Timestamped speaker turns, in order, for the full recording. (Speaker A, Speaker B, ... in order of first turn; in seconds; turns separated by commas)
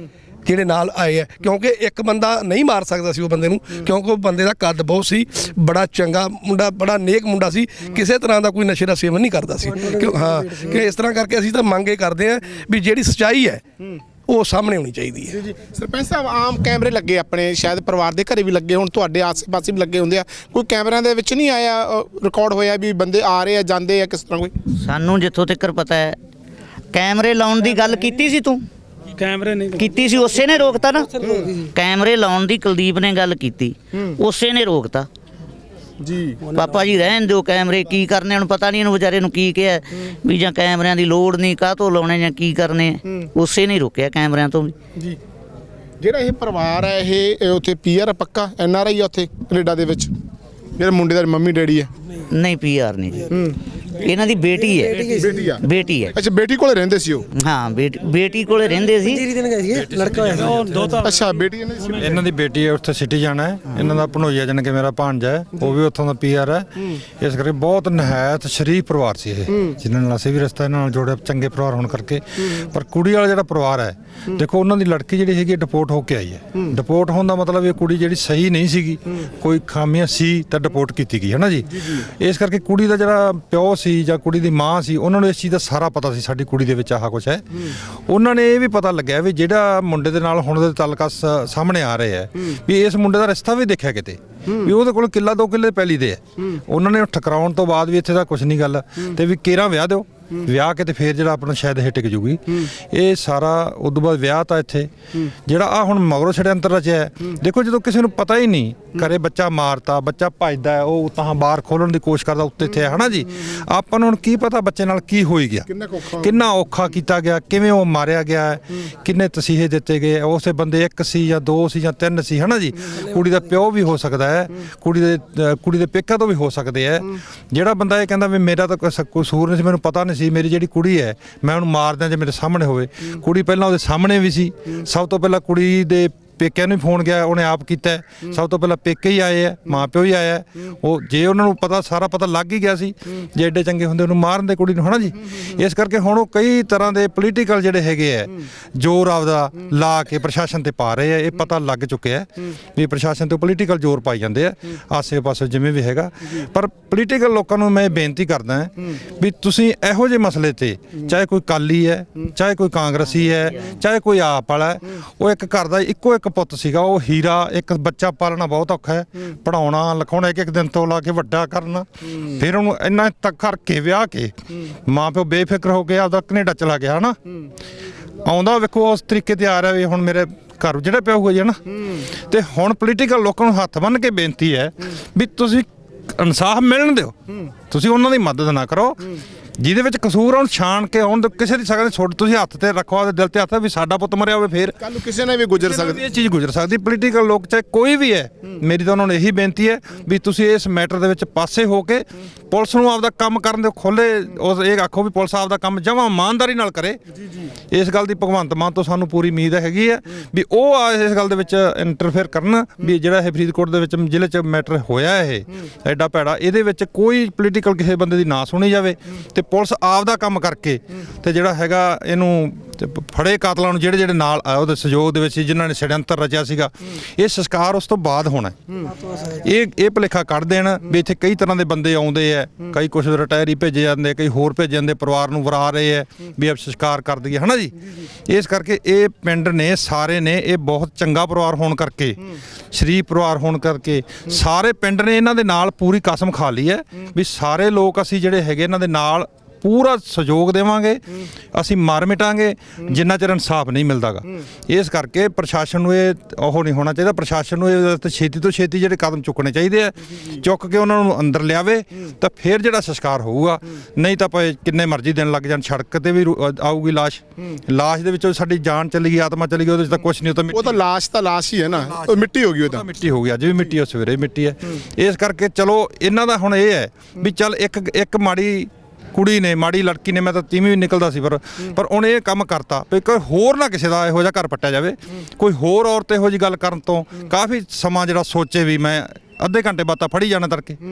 Speaker A: 0.5-13.6, Speaker B: 9.7-10.8, Speaker A: 14.3-15.4, Speaker C: 15.3-24.5, Speaker D: 24.8-26.2, Speaker D: 26.9-28.6, Speaker E: 29.1-29.8, Speaker D: 29.8-35.1, Speaker C: 31.2-31.5, Speaker C: 36.0-36.4, Speaker D: 36.5-44.8, Speaker C: 46.0-50.1, Speaker C: 50.8-51.9, Speaker D: 52.3-53.3, Speaker C: 53.3-53.6, Speaker D: 54.0-56.2, Speaker B: 54.6-55.5, Speaker C: 55.2-55.6, Speaker C: 56.1-57.3, Speaker D: 57.3-59.2, Speaker B: 59.0-61.0, Speaker F: 59.7-60.6, Speaker E: 60.3-61.3, Speaker C: 61.0-62.0, Speaker E: 61.9-62.1, Speaker F: 62.0-104.9, Speaker F: 105.5-115.7, Speaker C: 115.7-116.3, Speaker F: 116.2-174.3, Speaker F: 174.9-177.2, Speaker F: 178.2-187.2, Speaker F: 187.7-194.8, Speaker C: 194.8-196.0, Speaker F: 195.6-207.0, Speaker F: 207.7-228.6, Speaker F: 229.4-237.8, Speaker F: 238.3-242.2, Speaker F: 242.7-270.8, Speaker C: 270.5-272.8, Speaker F: 271.9-290.8